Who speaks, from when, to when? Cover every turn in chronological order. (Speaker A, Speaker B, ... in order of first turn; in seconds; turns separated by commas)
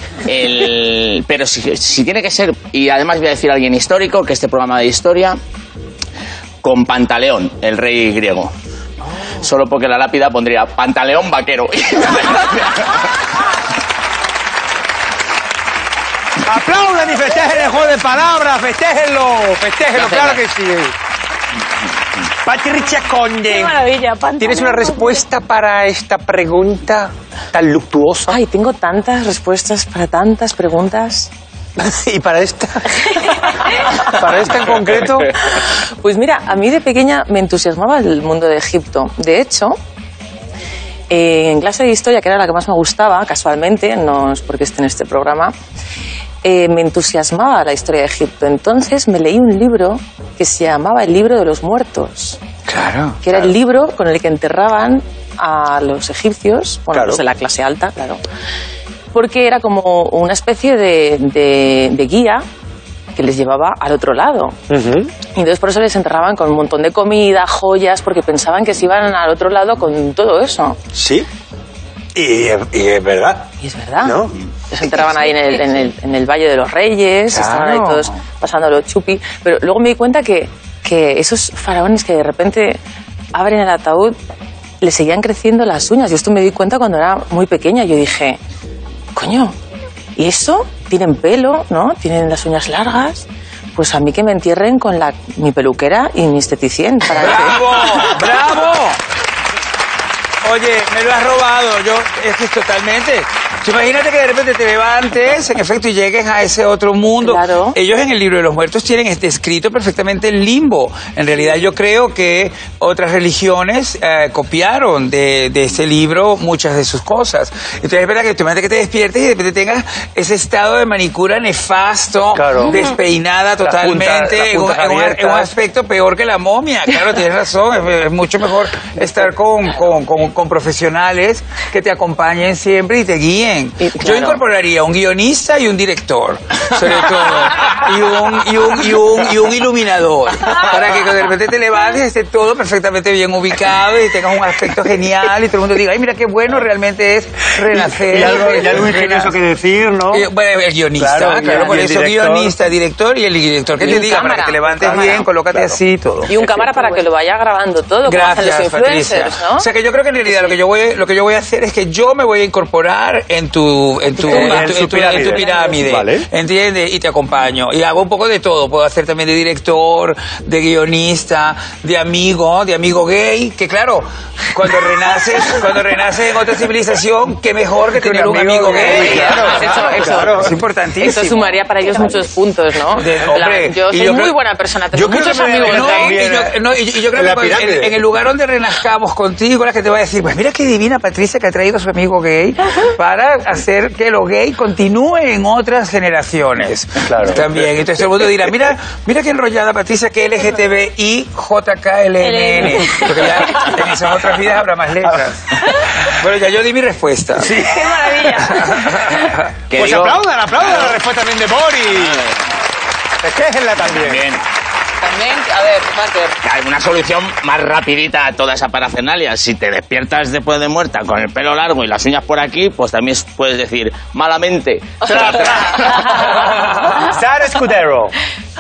Speaker A: 0.2-5.4, Speaker A: 6.6-8.5, Speaker A: 9.4-12.9, Speaker B: 16.4-20.9, Speaker A: 20.0-20.3, Speaker B: 22.4-23.8, Speaker C: 23.5-25.2, Speaker B: 24.4-28.4, Speaker D: 28.3-31.3, Speaker B: 31.8-35.4, Speaker D: 35.6-39.8, Speaker D: 41.1-45.5, Speaker D: 46.4-52.4, Speaker E: 52.7-53.2, Speaker B: 53.2-53.5, Speaker D: 53.2-58.2, Speaker B: 56.9-57.2, Speaker D: 59.1-62.4, Speaker D: 63.1-64.6, Speaker B: 64.7-65.1, Speaker D: 65.3-70.8, Speaker B: 70.9-71.3, Speaker B: 72.2-73.5, Speaker D: 73.6-82.8, Speaker B: 74.0-74.3, Speaker E: 77.3-78.0, Speaker D: 83.3-84.2, Speaker D: 84.8-88.4, Speaker D: 89.2-89.5, Speaker D: 90.2-98.1, Speaker E: 97.1-99.0, Speaker E: 100.4-149.3, Speaker D: 107.2-107.8, Speaker B: 122.3-122.8, Speaker B: 123.6-125.5, Speaker D: 133.9-134.4, Speaker B: 147.9-150.3, Speaker E: 150.1-156.3, Speaker B: 151.0-152.6, Speaker D: 153.8-155.3, Speaker B: 154.8-155.2, Speaker D: 156.3-159.7, Speaker E: 158.1-181.6, Speaker B: 164.2-166.3, Speaker B: 178.0-180.6, Speaker D: 178.3-180.4, Speaker D: 181.0-186.1, Speaker E: 183.0-184.3, Speaker B: 184.9-186.6, Speaker E: 185.0-207.7, Speaker B: 187.1-188.0, Speaker B: 197.0-197.6, Speaker C: 202.2-203.6, Speaker C: 207.5-209.3, Speaker E: 208.5-209.4, Speaker A: 209.7-210.9, Speaker B: 209.7-212.2, Speaker A: 212.1-212.3, Speaker B: 213.2-214.2, Speaker A: 213.9-214.4, Speaker A: 216.4-226.1, Speaker B: 225.0-228.2